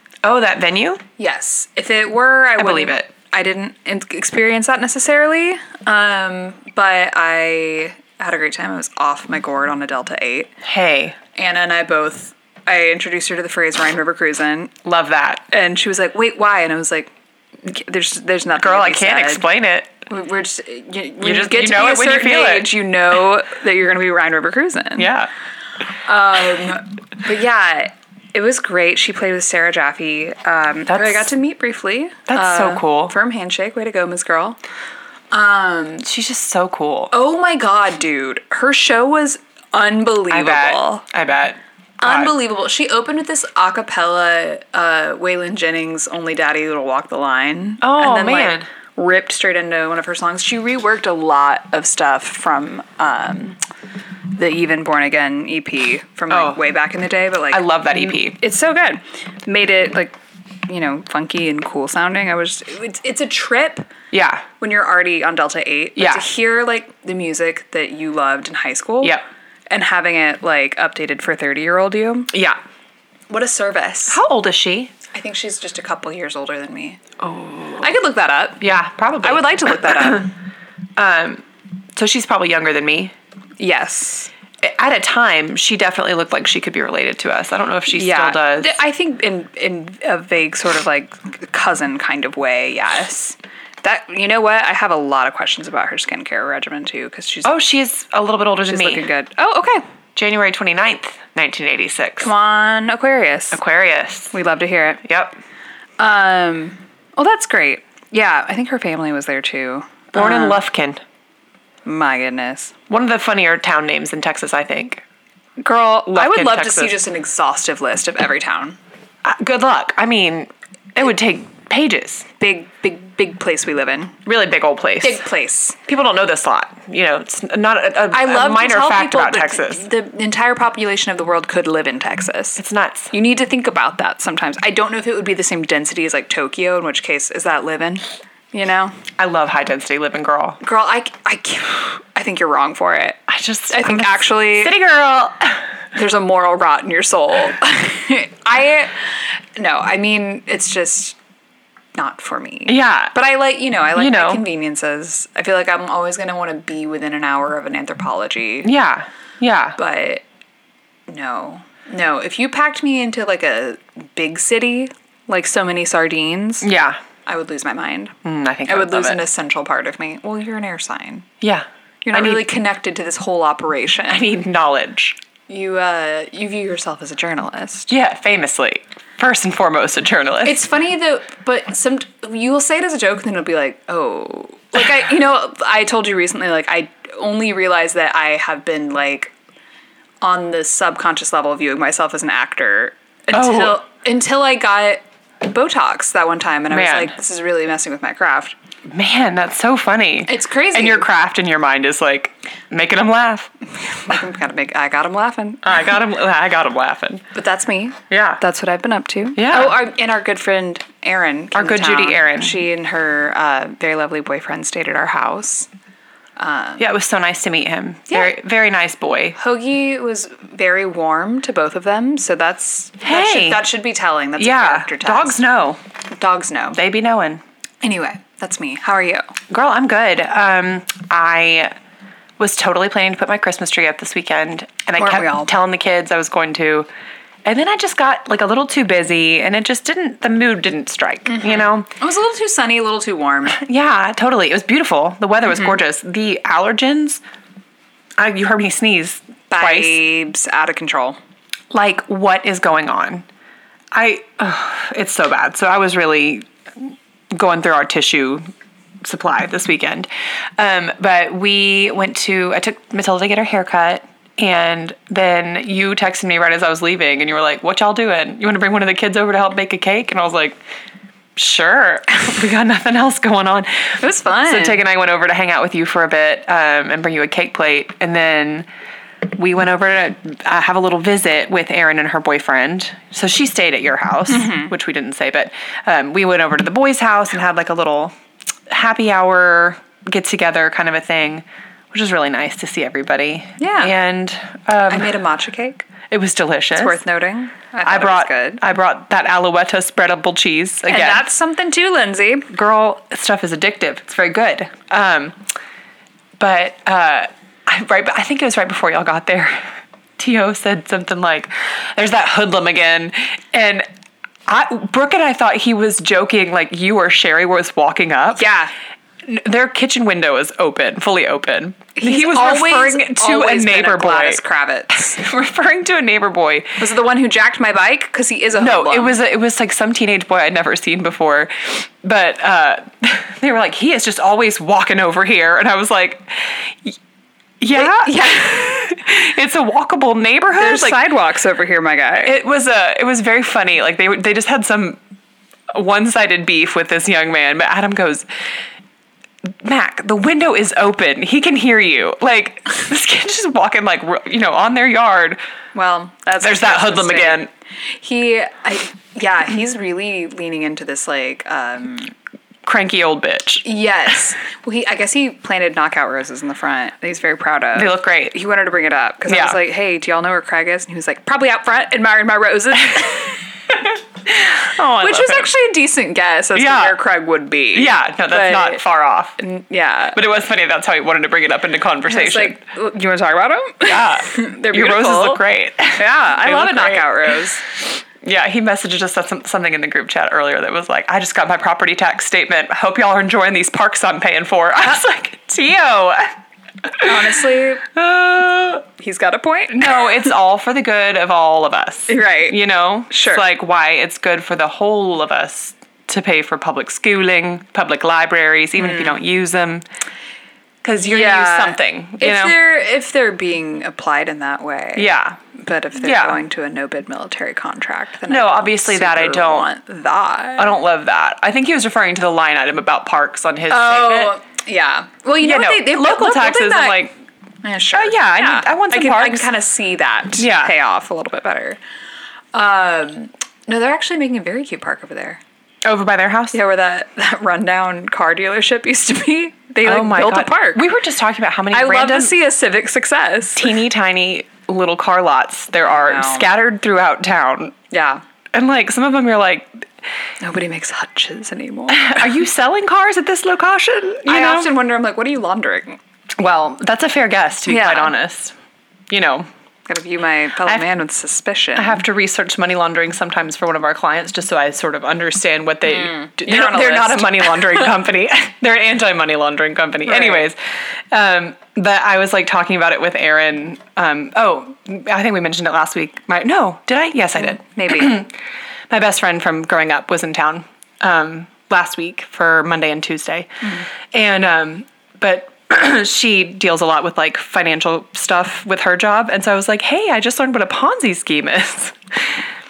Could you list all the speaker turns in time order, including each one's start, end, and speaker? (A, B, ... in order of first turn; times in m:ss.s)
0:00.2-0:01.0 A
0:01.2-0:10.5 B
0:02.6-0:03.1 A
0:10.6-0:11.2 A
0:11.4-0:14.7 B
0:14.8-0:15.4 A
0:15.5-0:17.1 B
0:17.6-0:19.4 B
0:18.6-0:19.9 A
0:20.1-0:25.1 B
0:21.2-0:22.7 A
0:25.0-0:25.3 A
0:26.0-0:34.6 B
0:30.9-0:31.3 A
0:32.3-0:33.1 A
0:35.3-0:36.1 B
0:36.0-0:37.1 A
0:37.1-0:41.0 B
0:40.3-0:42.3 A
0:42.0-0:53.6 B
0:47.8-0:48.7 A
0:54.4-1:00.2 B
0:56.3-0:56.6 A
0:57.5-0:58.4 A
1:00.7-1:03.9 B
1:04.1-1:04.4 A
1:04.6-1:09.2 B
1:06.0-1:06.2 A
1:09.7-1:12.3 B
1:12.3-1:12.6 A
1:13.3-1:14.2 B
1:14.1-1:14.9 A
1:15.1-1:17.0 B
1:17.2-1:17.9 A
1:17.8-1:18.7 B
1:18.6-1:20.3 A
1:19.2-1:20.3 B
1:21.0-1:21.4 A
1:22.0-1:23.1 A
1:23.6-1:24.3 B
1:24.6-1:28.8 A
1:27.9-1:37.6 B
1:37.4-1:39.1 A
1:38.7-1:39.8 B
1:40.2-1:42.3 A
1:42.2-1:43.6 B
1:43.5-1:44.3 A
1:44.3-1:45.0 B
1:45.0-1:45.4 A
1:46.0-1:50.6 B
1:50.1-1:51.0 A
1:51.9-1:52.8 B
1:52.9-1:55.0 A
1:55.6-1:58.8 B
1:56.1-1:57.0 A
1:59.2-2:02.3 A
2:02.4-2:04.2 B
2:04.2-2:05.2 A
2:05.0-2:05.8 B
2:05.9-2:09.9 A
2:08.1-2:19.0 B
2:12.6-2:13.1 A
2:19.2-2:20.6 A
2:20.6-2:24.7 B
2:23.3-2:25.6 A
2:26.0-2:31.2 B
2:32.0-2:38.7 B
2:32.7-2:33.1 A
2:34.0-2:34.4 A
2:38.6-2:39.8 A
2:39.8-2:40.2 B
2:41.1-2:46.7 B
2:46.6-2:47.0 A
2:47.3-2:48.1 B
2:48.2-2:49.2 A
2:48.7-2:51.3 B
2:51.4-2:52.5 A
2:52.0-2:54.3 B
2:54.1-2:55.2 A
2:55.5-2:57.9 B
2:57.9-3:00.6 A
3:00.4-3:09.3 B
3:10.2-3:18.6 B
3:13.3-3:13.8 A
3:16.7-3:17.1 A
3:18.9-3:23.5 A
3:20.3-3:21.1 B
3:23.9-3:25.8 B
3:25.6-3:27.2 A
3:27.3-3:35.7 B
3:28.1-3:28.4 A
3:29.4-3:29.8 A
3:31.5-3:32.6 A
3:36.4-3:36.9 B
3:36.8-3:39.4 A
3:38.1-3:38.4 B
3:39.4-3:45.4 B
3:43.0-3:43.7 A
3:44.4-3:45.8 A
3:46.1-3:46.8 B
3:46.7-3:47.4 A
3:47.8-3:49.3 B
3:49.5-3:51.7 A
3:52.4-3:56.9 A
3:55.0-3:55.5 B
3:57.4-4:01.9 A
4:01.3-4:03.6 B
4:03.5-4:07.2 A
4:08.2-4:10.0 A
4:09.5-4:11.2 B
4:11.7-4:13.3 A
4:13.9-4:16.5 A
4:17.3-4:18.4 A
4:19.0-4:30.6 A
4:31.4-4:38.7 A
4:34.0-4:34.8 B
4:39.3-4:48.1 A
4:44.3-4:44.7 B
4:48.7-4:55.2 A
4:53.6-4:53.9 B
4:54.9-4:55.9 B
4:56.1-4:57.0 A
4:56.8-4:58.6 B
4:57.8-5:01.3 A
5:00.9-5:02.5 B
5:02.5-5:05.4 A
5:06.4-5:13.8 A
5:14.5-5:18.4 A
5:18.4-5:18.7 B
5:19.2-5:24.4 A
5:22.0-5:25.2 B
5:24.9-5:26.8 A
5:26.8-5:29.2 B
5:28.6-5:37.0 A
5:37.6-5:41.0 A
5:37.7-5:38.9 B
5:40.6-5:42.4 B
5:42.2-5:45.0 A
5:45.7-5:48.3 A
5:49.6-5:55.4 A
5:55.8-5:57.5 B
5:56.4-5:57.5 A
5:58.0-6:02.1 B
6:02.6-6:03.6 A
6:03.6-6:13.5 B
6:07.8-6:08.4 A
6:09.3-6:09.6 A
6:14.3-6:15.5 A
6:15.0-6:18.8 B
6:16.6-6:17.0 A
6:17.7-6:19.4 A
6:19.4-6:20.2 B
6:20.2-6:22.6 A
6:22.1-6:25.4 B
6:23.8-6:36.3 A
6:26.0-6:27.6 B
6:36.8-6:38.8 A
6:37.0-6:37.8 B
6:39.0-6:40.3 B
6:39.7-6:49.8 A
6:42.1-6:43.4 B
6:48.8-6:49.2 B
6:50.8-6:52.6 A
6:51.0-7:00.8 B
6:55.0-6:55.4 A
6:56.0-6:56.4 A
6:58.3-6:59.7 A
7:00.6-7:04.3 A
7:03.7-7:07.1 B
7:05.4-7:07.1 A
7:07.6-7:11.8 B
7:07.9-7:09.5 A
7:10.4-7:10.7 A
7:12.5-7:15.4 B
7:15.8-7:16.6 A
7:16.5-7:20.8 B
7:19.8-7:22.4 A
7:21.7-7:23.8 B
7:23.6-7:27.8 A
7:25.9-7:26.5 B
7:27.9-7:28.2 B
7:28.5-7:29.9 A
7:30.4-7:32.3 B
7:31.9-7:34.7 A
7:34.2-7:36.0 B
7:36.4-7:38.6 A
7:37.7-7:38.1 B
7:39.1-7:39.5 A
7:39.9-7:42.0 B
7:41.8-7:50.6 A
7:45.8-7:47.9 B
7:50.1-7:50.5 B
7:51.1-7:58.3 A
7:57.4-7:58.2 B
7:58.9-8:12.4 A